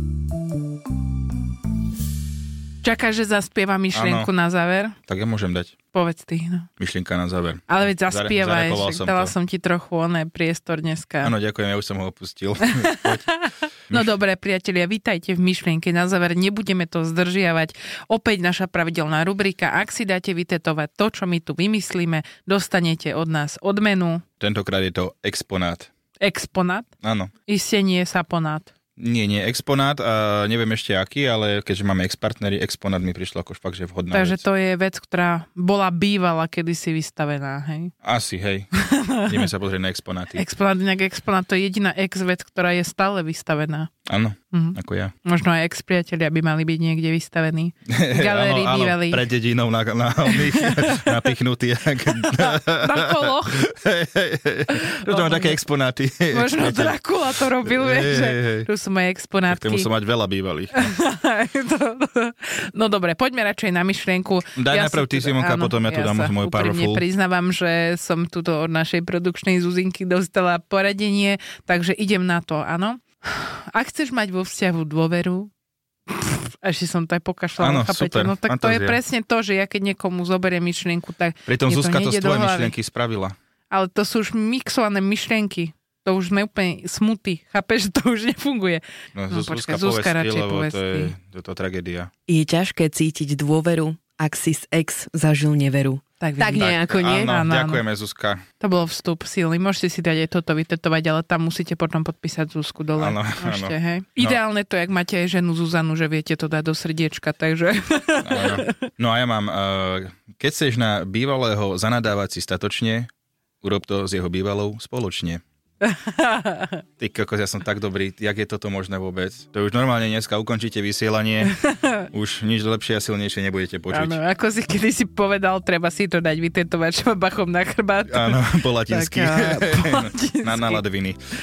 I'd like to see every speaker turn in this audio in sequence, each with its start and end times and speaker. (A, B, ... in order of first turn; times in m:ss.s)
0:02.8-0:05.0 A
0:03.9-0:04.3 B
0:05.1-0:05.8 B
0:05.9-0:06.7 A
0:06.8-0:09.3 B
0:07.7-0:11.3 A
0:11.2-0:13.2 B
0:12.6-0:24.2 A
0:24.4-0:25.9 B
0:26.2-0:26.9 A
0:27.0-0:27.3 B
0:27.5-0:28.7 A
0:29.0-0:34.4 B
0:34.1-0:37.9 A
0:38.0-0:38.7 B
0:38.8-0:39.5 A
0:39.2-0:40.4 B
0:40.3-0:43.9 A
0:44.1-0:45.1 B
0:44.5-0:49.2 A
0:47.9-0:58.7 B
0:50.3-0:51.2 A
0:52.2-0:53.6 A
0:54.7-0:55.6 A
0:56.3-0:59.9 A
0:59.5-1:00.9 B
1:00.7-1:15.5 A
1:04.6-1:07.0 B
1:16.1-1:22.7 A
1:17.6-1:19.0 B
1:21.5-1:23.4 B
1:23.7-1:31.1 A
1:29.1-1:32.1 B
1:32.3-1:37.3 C
1:36.2-1:37.8 A
1:36.5-1:38.4 B
1:38.6-1:48.9 A
1:43.0-1:44.4 B
1:48.2-1:53.1 B
1:53.6-1:55.4 B
1:55.8-1:56.8 A
1:57.0-2:01.6 B
2:01.6-2:02.1 A
2:02.1-2:04.2 B
2:03.9-2:10.8 A
2:08.1-2:11.2 B